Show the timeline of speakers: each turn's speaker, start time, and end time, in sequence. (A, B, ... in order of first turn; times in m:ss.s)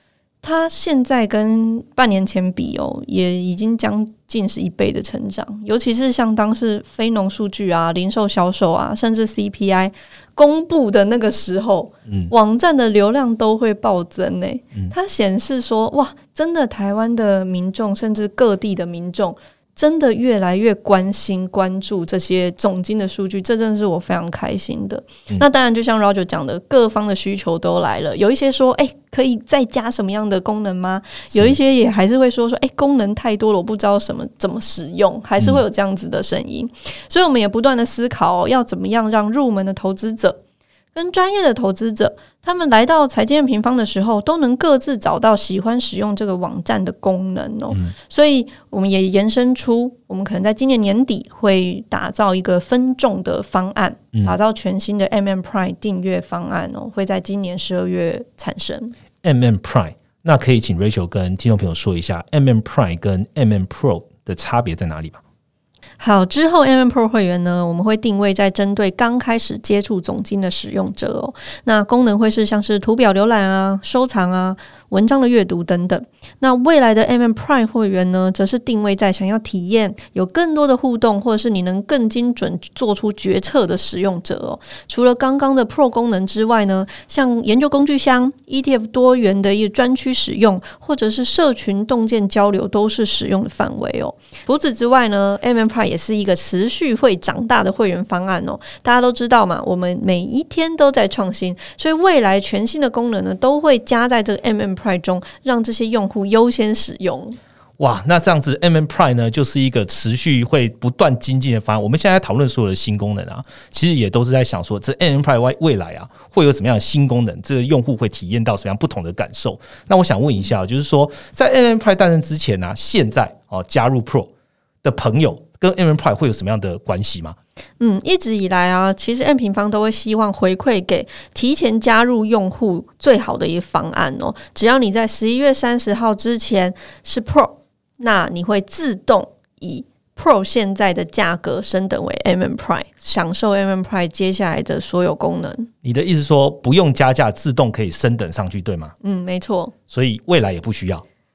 0:00.4-0:40.4 A
0:12.1-0:12.3 B
0:40.9-0:58.9 A
0:59.2-1:05.2 B
1:06.0-1:47.4 A
1:47.8-2:04.3 B
2:04.8-2:07.4 B
2:07.8-2:25.7 A
2:25.8-2:28.9 B
2:29.0-2:29.7 A
2:29.9-2:31.0 B